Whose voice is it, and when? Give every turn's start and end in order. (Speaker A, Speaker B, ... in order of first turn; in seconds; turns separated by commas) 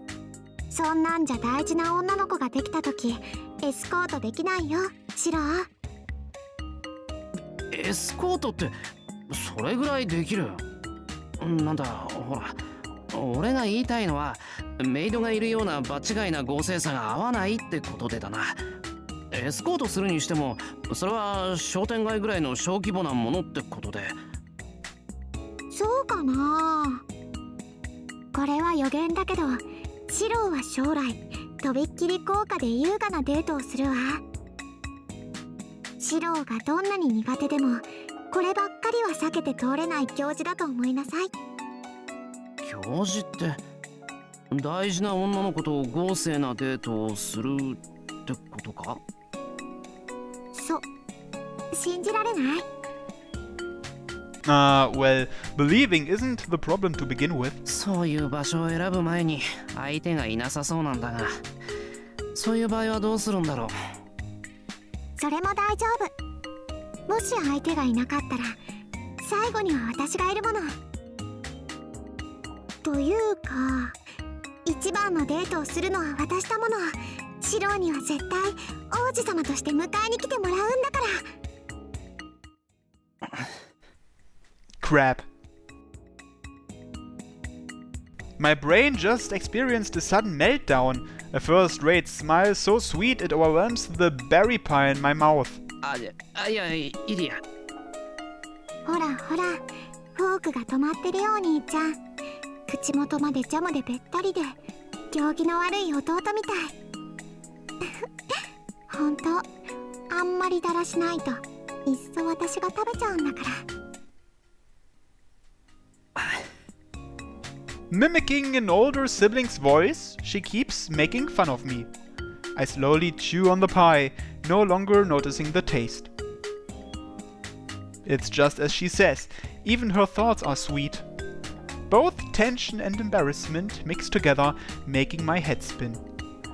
Speaker A: 0.7-5.7, Speaker B: 7.7-8.8, Speaker B: 9.3-10.6, Speaker B: 11.4-18.6, Speaker B: 19.3-24.2, Speaker A: 25.7-27.0, Speaker A: 28.3-34.2, Speaker A: 36.0-41.3, Speaker B: 42.6-43.6, Speaker B: 44.5-49.0, Speaker A: 50.5-50.9, Speaker A: 51.7-52.6, Speaker C: 54.4-57.6, Speaker B: 57.6-61.4, Speaker B: 62.3-63.7, Speaker A: 65.2-66.1, Speaker A: 67.1-68.6, Speaker A: 69.2-70.8, Speaker A: 72.8-74.0, Speaker A: 74.7-81.2, Speaker C: 84.8-85.2, Speaker C: 88.4-95.6, Speaker B: 95.8-97.4, Speaker A: 98.8-102.0, Speaker A: 102.7-104.6, Speaker A: 105.1-106.7, Speaker A: 108.9-109.4, Speaker A: 110.1-113.6, Speaker B: 116.2-116.4, Speaker C: 117.9-121.9, Speaker C: 122.5-126.1, Speaker C: 128.0-131.0, Speaker C: 131.9-136.0